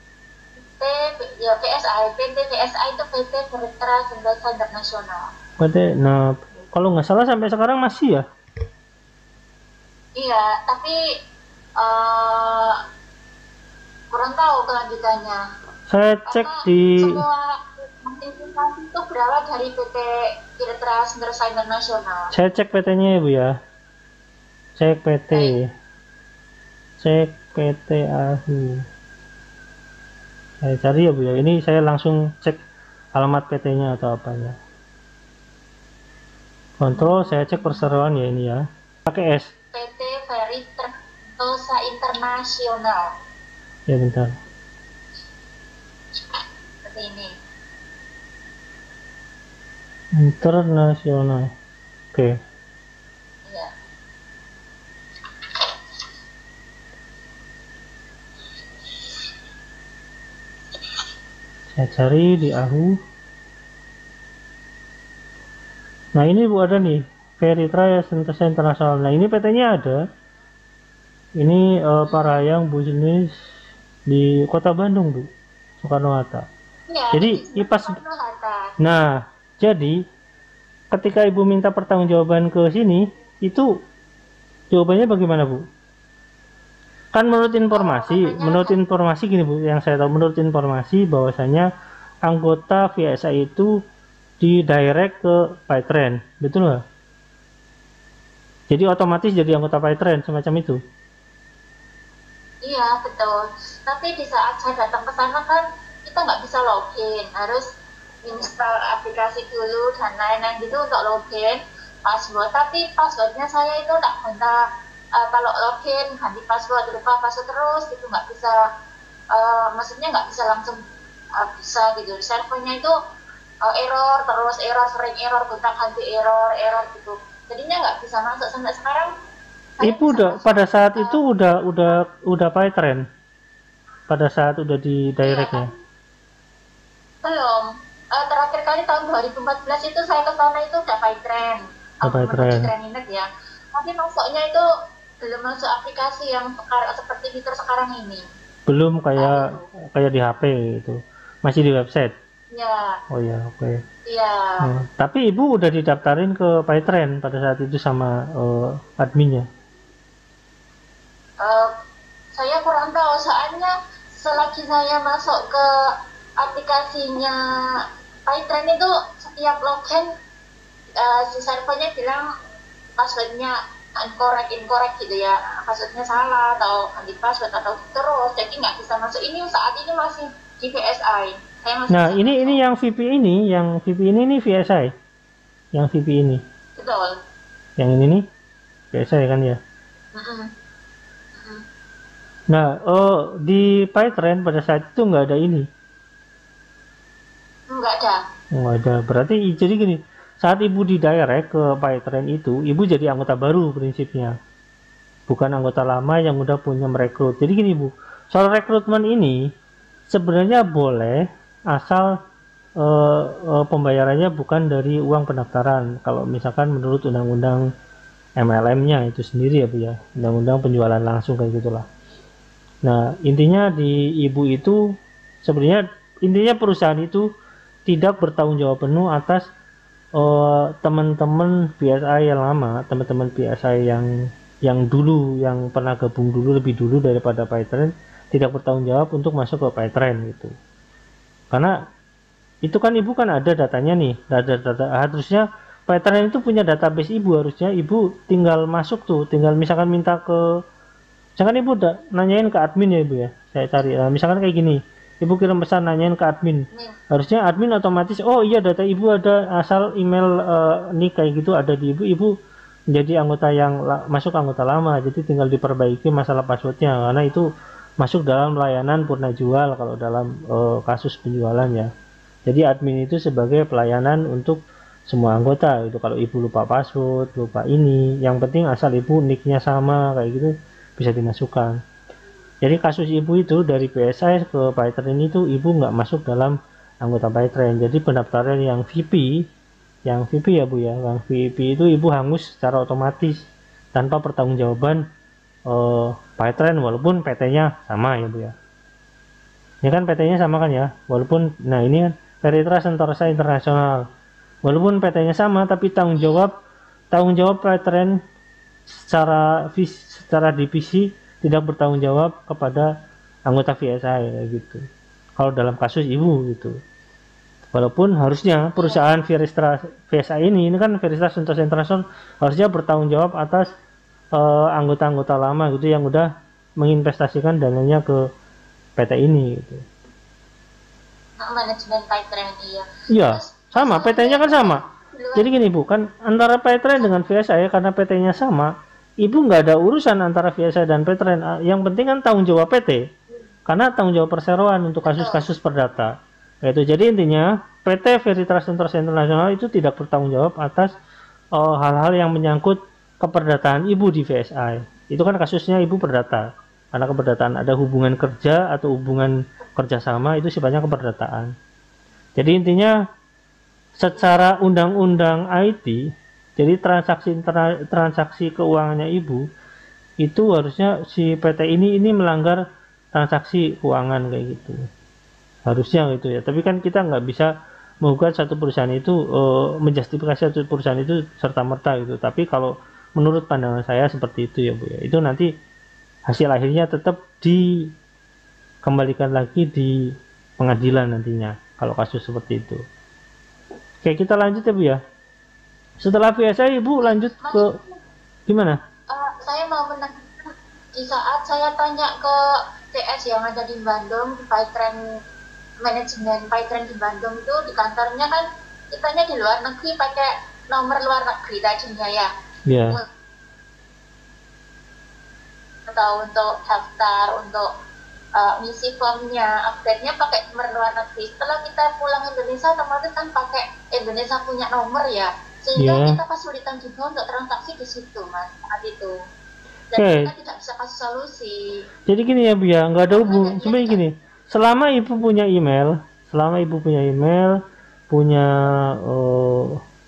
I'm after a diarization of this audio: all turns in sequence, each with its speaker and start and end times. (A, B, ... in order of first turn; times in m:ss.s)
0:00.8-0:05.3 A
0:05.6-0:08.2 B
0:10.2-0:10.9 A
0:11.8-0:12.8 A
0:14.1-0:15.4 A
0:15.9-0:17.2 B
0:16.3-0:22.3 A
0:22.3-0:23.6 B
0:24.8-0:25.7 B
0:25.3-0:25.6 A
0:27.0-0:28.8 B
0:30.6-0:32.6 B
0:33.2-0:34.6 B
0:36.8-0:39.5 B
0:37.0-0:37.3 A
0:39.7-0:43.1 A
0:43.9-0:44.3 B
0:46.8-0:47.3 A
0:50.2-0:51.5 B
0:53.5-0:53.7 A
1:01.8-1:03.0 B
1:06.2-1:10.0 B
1:11.4-1:13.3 B
1:12.0-1:12.5 A
1:14.1-1:15.3 B
1:15.8-1:16.5 B
1:16.9-1:18.7 A
1:17.1-1:17.9 B
1:18.8-1:20.0 B
1:20.9-1:23.7 B
1:24.7-1:25.6 B
1:27.1-1:31.7 B
1:27.6-1:28.8 A
1:32.2-1:33.7 B
1:34.4-1:36.8 B
1:38.7-1:40.8 B
1:42.6-1:47.6 A
1:48.2-1:54.6 A
1:55.2-1:58.6 A
1:59.3-2:00.8 A
2:01.4-2:02.9 A
2:03.6-2:09.1 A
2:09.8-2:11.2 A
2:09.8-2:13.0 B
2:14.1-2:15.7 B
2:15.2-2:15.7 A
2:17.2-2:24.6 A
2:22.0-2:22.7 B
2:25.3-2:28.2 A
2:28.7-2:32.1 B
2:29.2-2:29.7 A
2:32.5-2:33.0 A
2:33.1-2:33.8 B
2:34.1-2:34.7 A
2:34.6-2:39.4 B
2:41.4-2:41.7 A
2:42.3-2:50.1 A
2:51.0-2:52.3 A
2:53.0-3:02.6 A
3:01.9-3:04.9 B
3:05.7-3:06.4 B
3:06.8-3:07.2 A
3:07.8-3:08.3 B
3:08.9-3:09.6 B
3:10.2-3:10.5 A
3:11.4-3:11.6 A
3:12.5-3:15.6 B
3:17.7-3:18.2 A
3:18.6-3:24.3 B
3:25.3-3:29.4 B
3:30.1-3:32.1 B
3:32.8-3:37.7 B
3:38.4-3:41.8 B
3:42.8-3:44.8 B
3:45.4-3:47.2 B
3:47.9-3:49.4 B
3:50.2-3:54.1 B
3:54.6-4:00.5 B
4:02.6-4:10.4 B
4:11.4-4:22.3 B
4:16.7-4:17.0 A
4:22.9-4:27.4 B
4:28.0-4:31.9 B
4:32.5-4:41.8 B
4:42.6-4:49.5 B
4:50.1-4:55.0 B
4:55.7-4:58.5 B
4:59.8-5:04.0 B
5:04.6-5:06.5 B
5:07.1-5:08.2 B
5:08.9-5:12.9 B
5:13.5-5:14.8 B
5:15.4-5:16.8 B
5:17.7-5:23.7 B
5:18.8-5:19.3 A
5:24.4-5:26.3 B
5:26.8-5:28.2 B
5:29.0-5:29.8 B
5:31.4-5:35.6 A
5:33.1-5:34.8 B
5:35.4-5:43.1 B
5:37.0-5:37.2 A
5:43.7-5:50.9 B
5:45.0-5:45.5 A
5:51.6-6:01.5 B
6:02.4-6:02.9 B
6:04.0-6:06.0 B
6:06.6-6:09.4 B
6:10.2-6:12.6 B
6:13.1-6:14.8 B
6:15.7-6:17.5 B
6:18.0-6:25.5 B
6:26.3-6:27.6 B
6:28.8-6:29.9 B
6:30.6-6:32.8 B
6:34.0-6:35.0 B
6:36.0-6:37.7 B
6:37.0-6:38.0 A
6:38.5-6:38.8 B
6:39.1-6:45.0 A
6:45.8-6:52.3 A
6:52.7-6:53.0 B
6:55.9-6:57.7 A
6:58.4-7:09.1 A
7:05.8-7:06.2 B
7:09.9-7:11.7 A
7:10.0-7:10.3 B
7:12.1-7:17.6 B
7:13.1-7:14.0 A
7:18.1-7:19.8 B